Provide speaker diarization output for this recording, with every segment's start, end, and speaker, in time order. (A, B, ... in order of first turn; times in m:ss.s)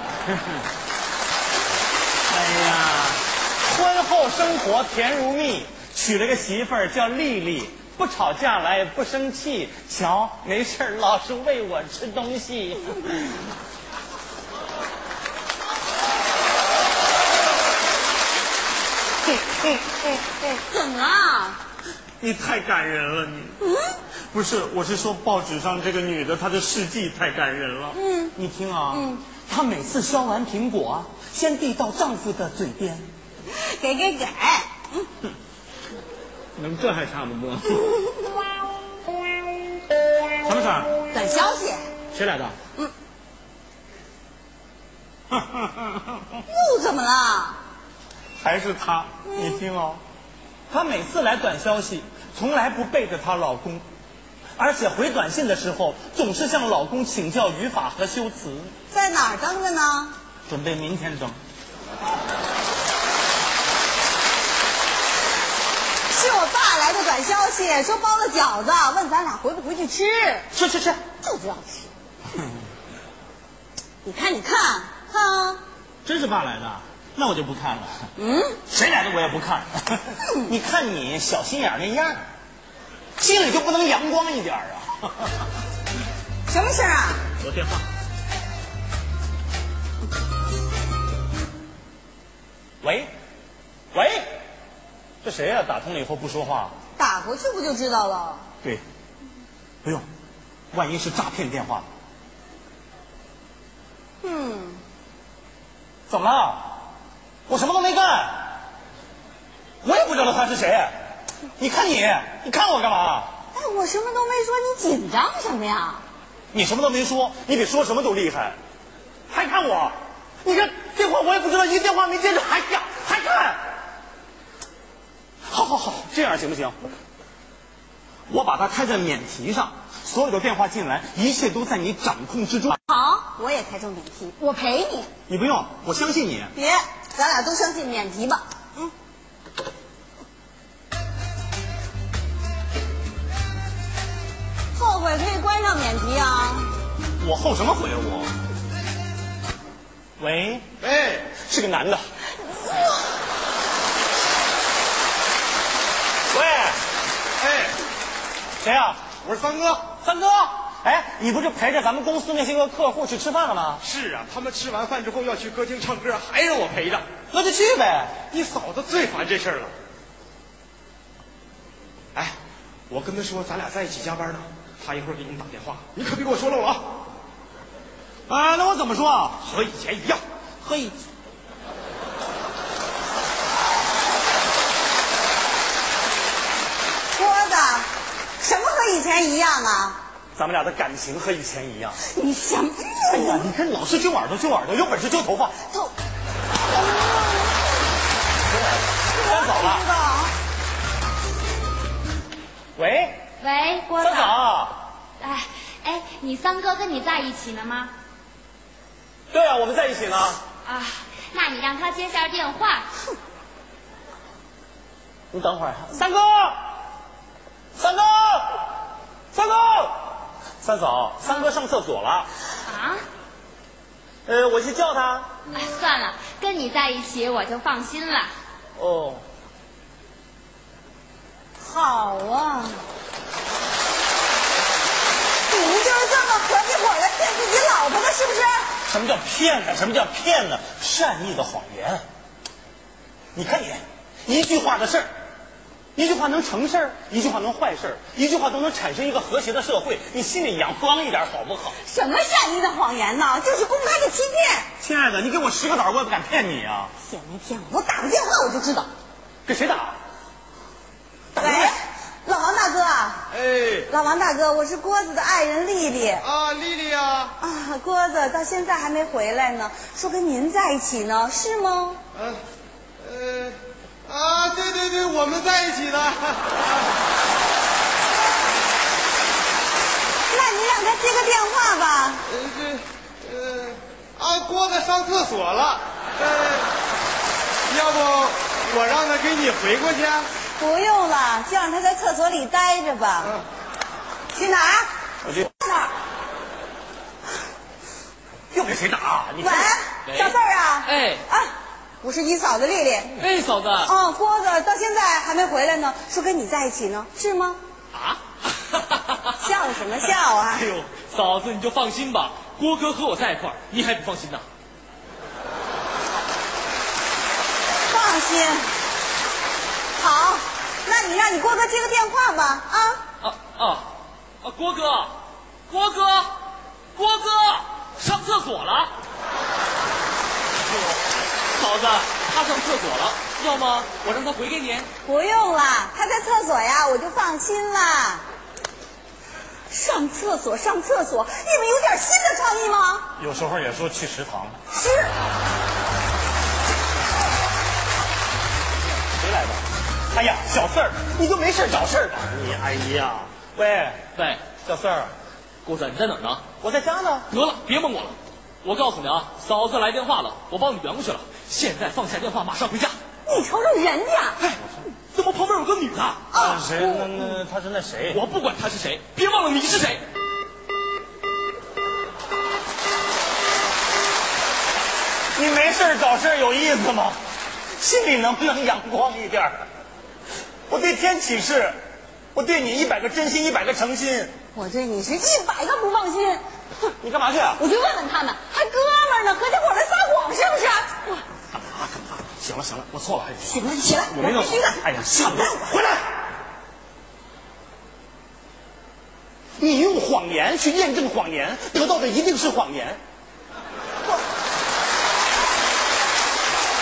0:00.2-0:00.6 A
0:02.3-0:13.4 A
0:20.1-0:21.6 B
0:22.2-0:23.6 A
0:23.6-0:24.0 B
0:24.3-0:33.0 A
0:27.9-0:28.3 B
0:28.9-0:29.2 B
0:33.5-0:35.1 B
0:36.6-0:38.0 A
0:40.4-0:40.9 A
0:41.1-0:41.9 B
0:42.1-0:42.6 A
0:45.3-0:46.3 A
0:46.4-0:47.6 B
0:48.4-0:50.0 A
0:49.3-0:49.6 B
0:50.7-0:53.8 A
0:54.6-0:58.7 A
0:58.9-1:00.1 B
1:00.5-1:01.4 A
1:06.1-1:10.5 B
1:10.5-1:11.0 A
1:11.2-1:11.9 B
1:14.0-1:15.6 B
1:16.0-1:18.0 A
1:18.2-1:18.6 B
1:18.7-1:22.2 A
1:23.2-1:25.3 A
1:26.5-1:27.2 B
1:27.4-1:27.8 A
1:32.8-1:33.1 A
1:33.9-1:34.2 A
1:35.2-1:36.7 A
1:37.0-1:38.5 B
1:40.7-1:41.8 A
1:44.2-1:44.8 B
1:46.1-1:46.8 A
1:47.5-1:48.5 A
1:49.8-1:50.9 A
1:51.6-1:53.3 A
1:53.5-1:56.0 B
1:56.5-1:58.6 A
1:59.3-2:03.6 A
2:05.5-2:06.8 A
2:08.3-2:12.8 A
2:12.9-2:15.1 B
2:15.3-2:16.5 A
2:16.5-2:18.9 B
2:24.7-2:26.7 B
2:27.2-2:28.3 A
2:30.2-2:30.7 A
2:30.8-2:31.4 C
2:31.3-2:32.0 A
2:36.3-2:36.8 A
2:37.4-2:37.8 C
2:38.6-2:39.1 A
2:39.2-2:39.9 C
2:39.9-2:43.8 A
2:43.8-2:47.1 C
2:47.3-2:48.2 A
2:48.2-2:49.7 C
2:52.9-2:57.0 C
2:58.3-2:59.4 A
2:59.4-3:00.2 C
3:00.6-3:01.0 A
3:07.1-3:10.0 B
3:10.3-3:12.0 A
3:12.0-3:13.5 B
3:13.0-3:15.6 A
3:16.7-3:17.6 B
3:19.1-3:20.3 B
3:19.2-3:19.9 A
3:22.8-3:23.2 A
3:23.4-3:24.4 D
3:24.0-3:24.8 A
3:25.2-3:27.9 D
3:29.3-3:30.4 A
3:30.6-3:32.9 D
3:35.3-3:36.6 A
3:37.8-3:38.6 A
3:39.3-3:42.3 A
3:42.6-3:43.0 D
3:44.2-3:45.3 A
3:45.5-3:48.3 D
3:48.8-3:49.2 A
3:51.6-3:52.8 B
3:55.5-3:58.7 B
3:58.8-4:02.0 A
4:03.3-4:05.1 A
4:06.0-4:11.8 A
4:11.8-4:14.7 B
4:14.8-4:16.9 A
4:17.0-4:18.9 B
4:19.4-4:20.0 A
4:21.3-4:21.7 A
4:21.4-4:23.3 B
4:23.3-4:23.9 C
4:23.9-4:26.2 B
4:26.2-4:27.3 C
4:27.4-4:32.0 B
4:32.1-4:32.4 C
4:33.0-4:36.6 C
4:40.3-4:42.2 B
4:42.3-4:46.7 C
4:47.6-4:50.3 C
4:50.6-4:53.4 B
4:54.3-4:54.9 B
4:55.2-4:55.5 A
4:55.6-4:55.9 B
4:58.5-4:59.7 A
4:59.4-5:03.2 B
5:00.1-5:01.2 E
5:03.2-5:03.9 E
5:03.8-5:07.6 B
5:07.9-5:09.4 E
5:09.4-5:10.7 B
5:10.7-5:14.4 E
5:17.9-5:18.7 B
5:20.0-5:23.0 B
5:23.2-5:25.2 E
5:25.7-5:26.4 E
5:26.9-5:28.9 E
5:30.7-5:31.0 E
5:31.5-5:34.9 E
5:35.0-5:38.2 B
5:39.7-5:43.1 B
5:43.2-5:44.6 A
5:44.7-5:45.1 B
5:49.2-5:55.1 A
5:54.2-5:54.5 E
5:55.6-5:56.4 E
5:56.6-5:57.3 A
5:57.3-6:03.0 E
6:03.2-6:04.4 B
6:05.1-6:06.3 E
6:06.3-6:07.4 B
6:06.3-6:08.3 A
6:08.1-6:10.0 E
6:15.3-6:17.2 A
6:17.8-6:19.6 A
6:20.7-6:21.8 A
6:22.3-6:24.3 A
6:24.5-6:26.4 B
6:27.0-6:27.6 A
6:27.6-6:31.2 B
6:31.5-6:36.1 A
6:33.5-6:35.7 B
6:39.6-6:43.0 A